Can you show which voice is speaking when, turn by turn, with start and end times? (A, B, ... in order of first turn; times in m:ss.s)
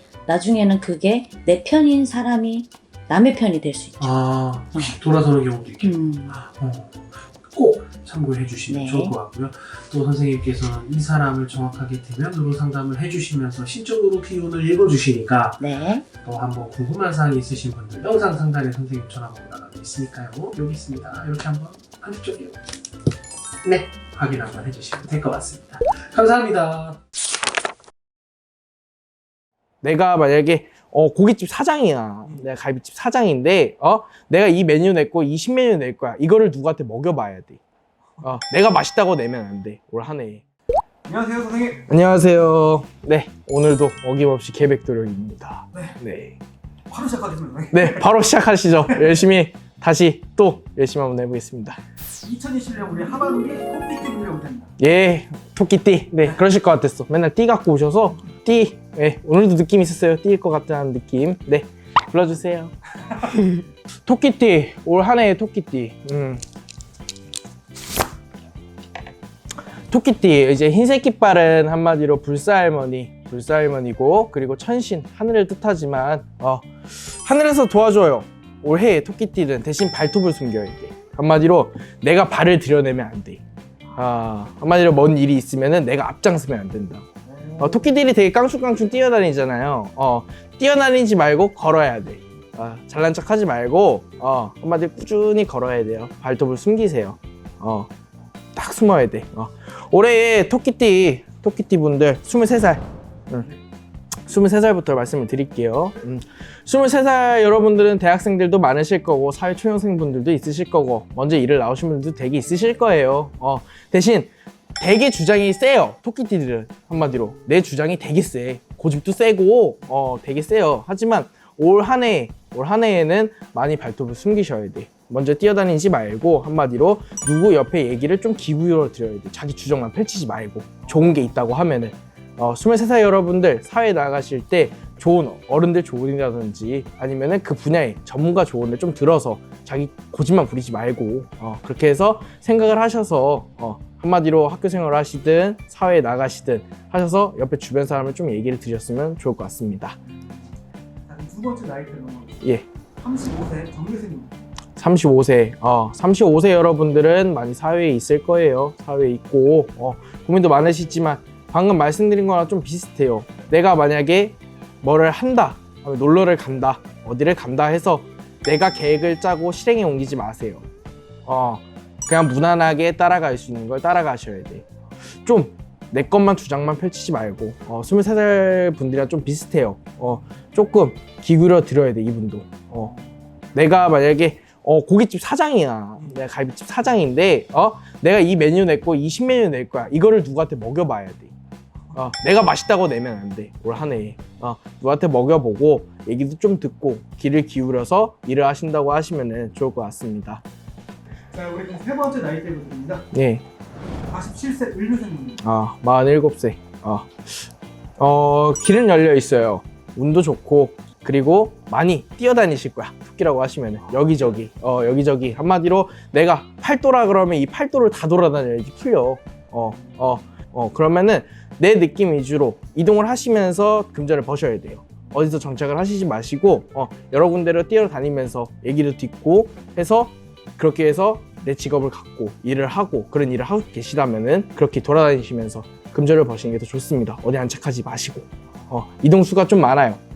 0:00.2-0:04.2 A
0:04.0-0:15.7 B
0:04.7-0:05.0 A
0:05.8-0:06.4 A
0:08.7-0:09.2 A
0:15.6-0:16.0 A
0:16.2-0:22.6 B
0:23.6-0:27.0 B
0:29.8-0:37.6 C
0:38.2-0:40.4 C
0:41.1-0:41.9 D
0:41.9-0:46.4 C
0:45.7-0:46.0 D
0:46.9-0:48.0 D
0:47.7-0:51.8 C
0:52.2-0:54.7 D
0:54.8-1:02.7 C
1:03.3-1:06.4 C
1:09.9-1:23.4 C
1:24.0-1:27.1 C
1:27.2-1:27.9 D
1:27.6-1:37.9 C
1:38.6-1:43.5 C
1:44.3-2:30.0 C
2:30.1-2:30.6 D
2:31.1-2:32.4 D
2:33.0-2:34.4 D
2:34.8-2:50.7 C
2:51.2-2:54.7 C
2:55.2-3:02.9 C
3:02.8-3:03.1 D
3:03.5-3:11.3 C
3:06.0-3:06.2 D
3:11.9-3:20.4 C
3:21.3-3:23.1 D
3:23.1-3:23.4 C
3:24.1-3:25.4 D
3:25.4-4:00.0 C
3:33.9-3:34.3 D